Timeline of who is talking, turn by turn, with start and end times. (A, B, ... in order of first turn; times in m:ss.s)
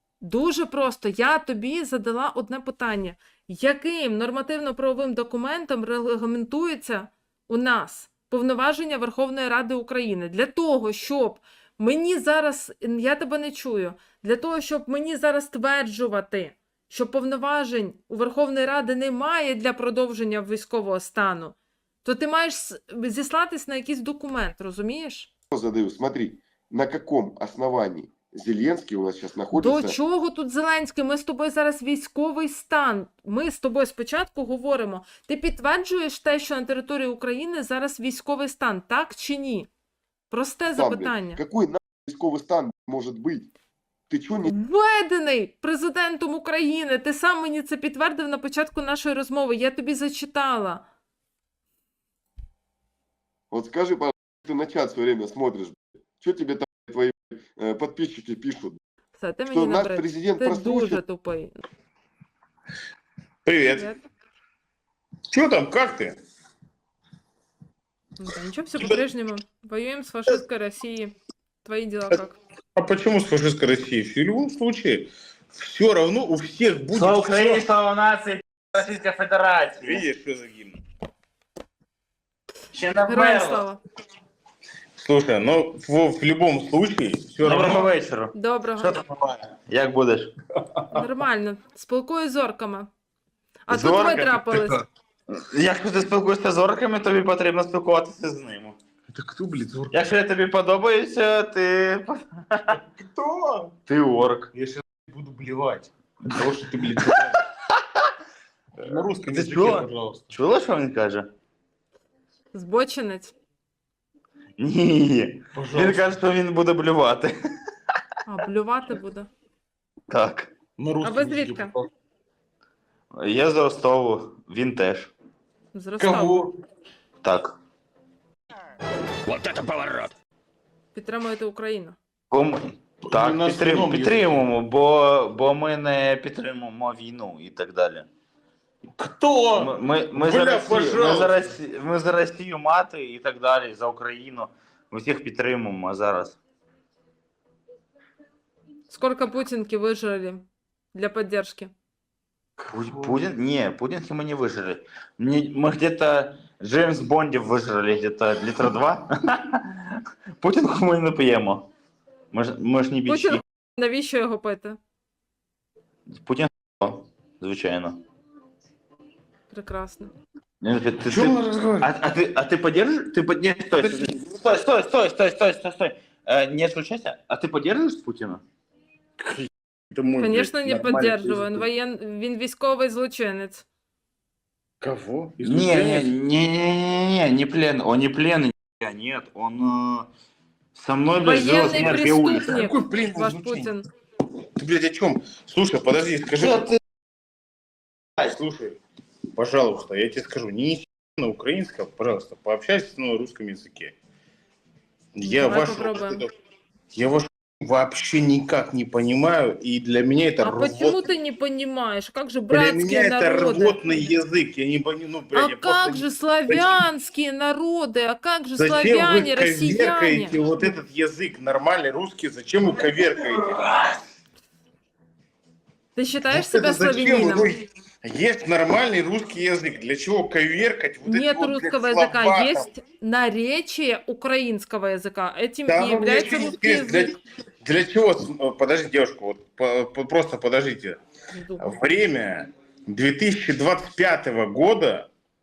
0:00.2-0:25.3 A
0:25.5-0:30.0 B
0:29.5-0:39.7 A
0:40.3-0:41.4 A
0:40.7-0:43.5 B
0:44.1-0:44.6 B
0:44.4-0:50.8 A
0:53.5-0:58.8 B
0:59.2-1:01.6 A
0:59.5-1:01.0 B
1:03.4-1:03.9 C
1:03.7-1:04.0 A
1:05.3-1:06.2 C
1:08.2-1:12.4 A
1:12.7-1:17.7 C
1:16.9-1:20.0 D
1:19.8-1:20.8 C
1:22.7-1:23.6 D
1:23.0-1:23.8 A
1:25.0-1:27.9 C
1:27.4-1:30.3 D
1:28.3-1:29.0 A
1:30.9-1:32.9 A
1:33.7-1:34.8 A
1:33.7-1:34.5 D
1:34.5-1:34.8 C
1:35.3-1:38.8 D
1:39.1-1:40.0 C
1:39.9-1:42.8 D
1:42.9-1:43.7 C
1:43.8-1:44.5 D
1:44.5-1:47.4 C
1:46.4-1:47.3 D
1:48.8-1:50.4 C
1:49.2-1:51.3 D
1:52.5-1:53.3 A
1:54.6-1:57.3 D
1:55.5-1:56.1 C
1:58.2-1:59.3 A
2:00.1-2:00.5 D
2:00.8-2:01.9 C
2:01.0-2:01.7 A
2:03.1-2:05.1 D
2:05.7-2:06.4 A
2:06.0-2:06.6 C
2:07.2-2:07.6 D
2:09.3-2:10.1 D
2:10.9-2:12.0 A
2:12.3-2:18.1 D
2:13.0-2:14.4 C
2:19.0-2:21.5 C
2:19.5-2:26.4 D
2:28.9-2:31.7 A
2:32.7-2:41.7 D
2:42.3-2:43.4 D
2:43.0-2:44.8 A
2:46.1-2:48.0 D
2:49.5-2:50.1 A
2:50.6-2:58.4 D
2:51.0-2:51.9 C
2:53.8-2:54.1 C
2:59.2-3:01.6 C
3:00.2-3:03.6 A
3:04.8-3:06.1 C
3:05.4-3:10.1 D
3:10.7-3:12.6 D
3:11.2-3:13.8 A
3:11.6-3:13.7 C
3:14.6-3:16.8 C
3:16.4-3:16.8 D
3:18.2-3:18.8 C
3:19.3-3:24.0 C
3:25.1-3:26.3 C
3:25.2-3:26.2 A
3:26.9-3:31.0 C
3:30.4-3:33.8 A
3:32.5-3:36.8 C
3:35.3-3:40.8 A
3:38.6-3:44.0 C
3:45.9-3:47.5 A
3:46.3-3:52.6 C
3:51.0-3:57.2 A
3:55.6-4:01.0 C
4:01.3-4:01.7 A
4:01.6-4:05.1 C